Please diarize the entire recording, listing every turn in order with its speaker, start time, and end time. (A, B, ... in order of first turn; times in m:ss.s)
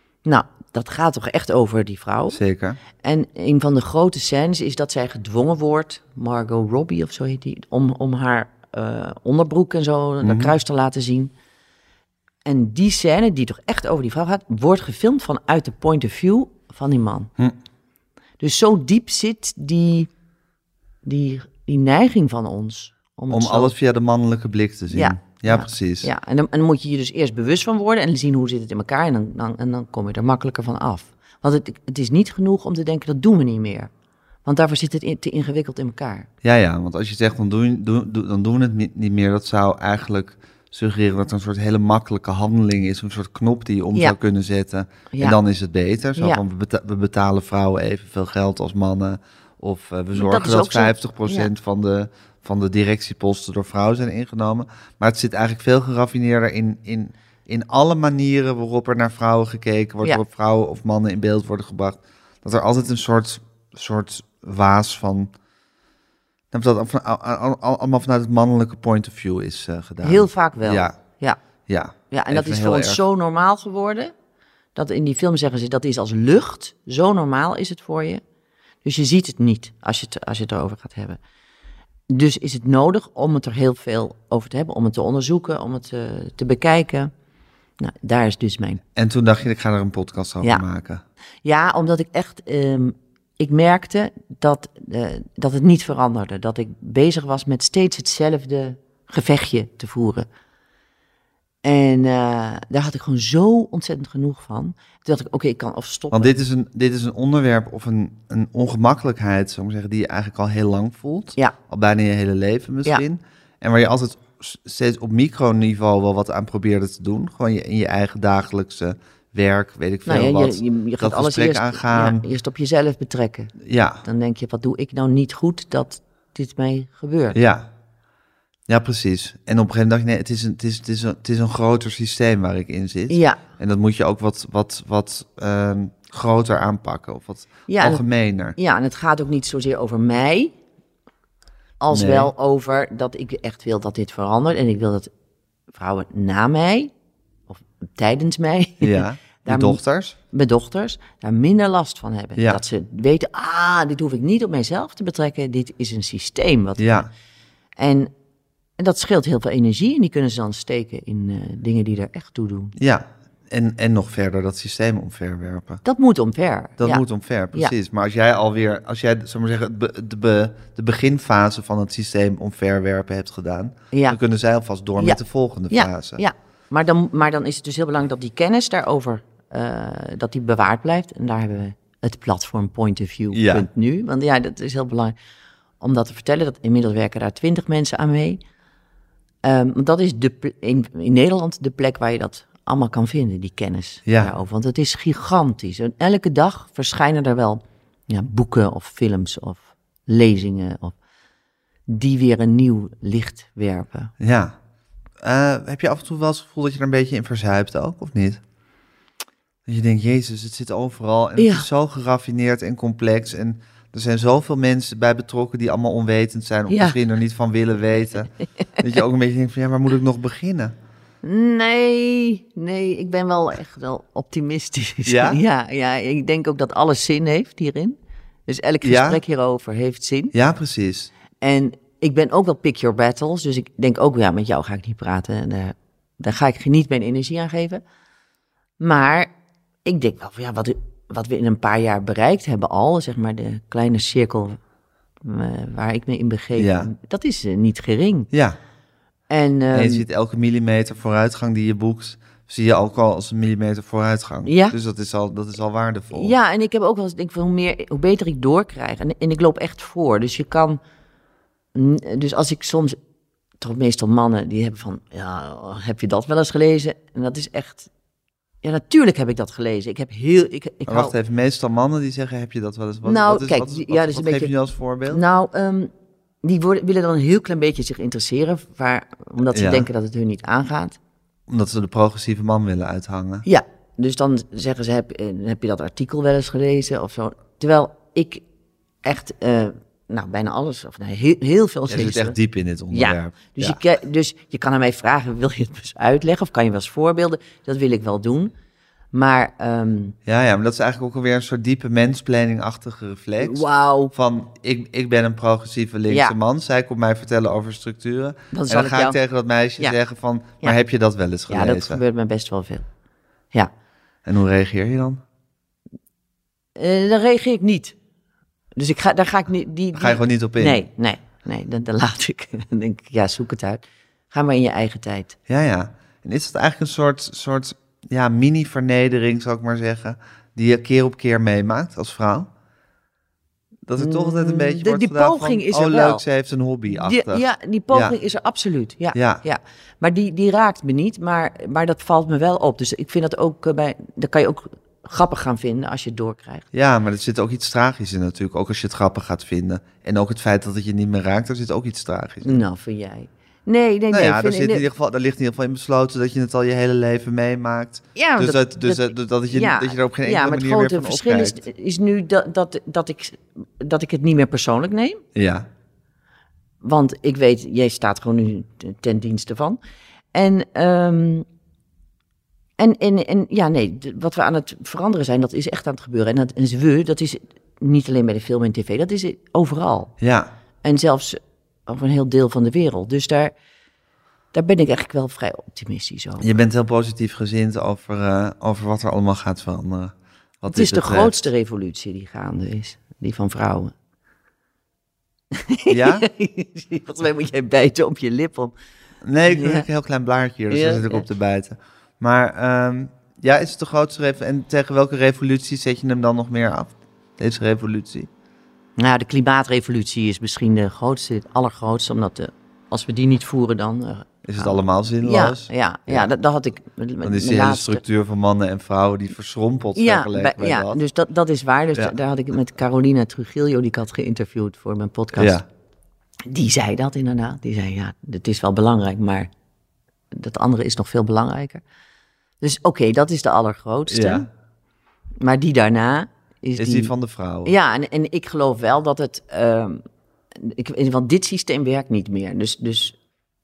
0:00.2-0:02.4 A
0:02.3-0:02.8 B
0:03.0-0:11.3 A
0:10.2-0:10.6 B
0:12.4-0:17.3 A
0:18.4-0:20.1 A
0:21.0-0:23.7 A
0:23.3-0:26.1 B
0:24.9-0:33.9 A
0:34.4-0:36.3 A
0:36.4-1:05.3 B
0:45.1-0:45.4 A
0:46.2-0:46.4 A
0:50.1-0:51.5 A
1:06.5-1:10.9 B
1:10.0-1:11.4 A
1:11.7-1:13.0 B
1:12.1-1:14.1 A
1:14.8-1:18.2 A
1:18.8-1:21.2 A
1:22.1-1:27.1 A
1:27.8-1:28.8 A
1:29.0-1:31.0 B
1:31.4-1:40.3 A
1:41.6-1:46.3 A
1:46.1-2:02.2 B
2:00.1-2:07.4 A
2:03.6-2:04.0 B
2:07.3-2:07.7 B
2:08.7-2:18.6 B
2:13.1-2:13.4 A
2:17.7-2:18.0 A
2:18.6-2:20.5 A
2:21.8-2:25.1 A
2:21.9-2:22.3 B
2:25.7-2:26.9 A
2:27.5-2:29.8 A
2:28.8-2:30.2 B
2:30.3-2:36.9 A
2:36.8-2:37.1 B
2:37.8-2:38.1 A
2:38.8-2:42.7 A
2:42.8-2:45.8 B
2:45.8-2:47.7 A
2:46.8-2:56.2 B
2:53.9-2:54.2 A
2:55.0-3:05.2 A
3:03.3-3:03.7 B
3:05.8-3:08.4 A
3:09.4-3:21.0 A
3:14.1-3:14.3 B
3:21.9-3:24.1 A
3:24.2-3:24.6 B
3:25.2-3:28.4 B
3:29.7-3:40.8 B
3:31.4-3:31.7 A
3:36.7-3:37.0 A
3:41.2-3:50.3 A
3:45.1-3:45.4 B
3:48.8-3:49.2 B
3:50.3-3:51.1 B
3:51.4-3:57.8 A
3:58.8-3:59.3 A
3:59.8-4:04.6 A
4:05.2-4:08.3 A
4:06.6-4:06.9 B
4:08.3-4:08.6 B
4:09.3-4:10.1 A
4:09.7-4:16.4 B
4:14.5-4:14.8 A
4:16.1-4:20.8 A
4:21.8-4:23.0 A
4:23.6-4:27.9 A
4:28.6-4:31.1 A
4:30.9-4:35.2 B
4:33.0-4:34.5 A
4:35.1-4:35.9 A
4:36.4-4:41.0 A
4:39.5-4:39.9 B
4:41.5-4:43.5 B
4:43.4-4:48.4 A
4:49.0-4:52.4 A
4:51.9-4:53.8 B
4:52.9-4:58.5 A
4:59.1-5:00.2 A
5:00.3-5:12.0 B
5:03.4-5:04.1 A
5:06.1-5:06.4 A
5:08.5-5:09.2 A
5:11.5-5:12.9 A
5:14.2-5:15.2 B
5:16.8-5:18.0 A
5:18.8-5:25.4 A
5:19.9-5:20.9 B
5:25.5-5:32.5 B
5:33.9-5:38.2 B
5:34.0-5:36.2 A
5:36.9-5:46.6 A
5:39.1-5:39.4 B
5:46.7-5:52.6 B
5:52.4-5:54.9 A
5:54.1-6:01.6 B
5:58.2-6:05.2 A
6:05.4-6:05.7 B
6:06.8-6:09.8 A
6:10.3-6:11.5 A
6:12.8-6:20.1 A
6:20.2-6:20.5 B
6:20.8-6:23.5 A
6:24.5-6:26.6 A
6:26.4-6:31.4 B
6:30.7-6:33.9 A
6:35.6-6:38.7 A
6:35.9-6:36.3 B
6:39.2-6:48.3 B
6:39.5-6:39.9 A
6:40.7-6:41.3 A
6:49.0-6:58.0 A
6:54.4-6:56.3 B
6:57.2-7:01.0 B
7:00.0-7:05.6 A
7:05.4-7:05.7 B
7:06.5-7:09.5 A
7:10.3-7:11.8 A
7:12.6-7:14.5 A
7:14.1-7:14.5 B
7:15.4-7:17.1 A
7:16.8-7:17.8 B
7:17.6-7:20.0 A
7:20.6-7:23.2 A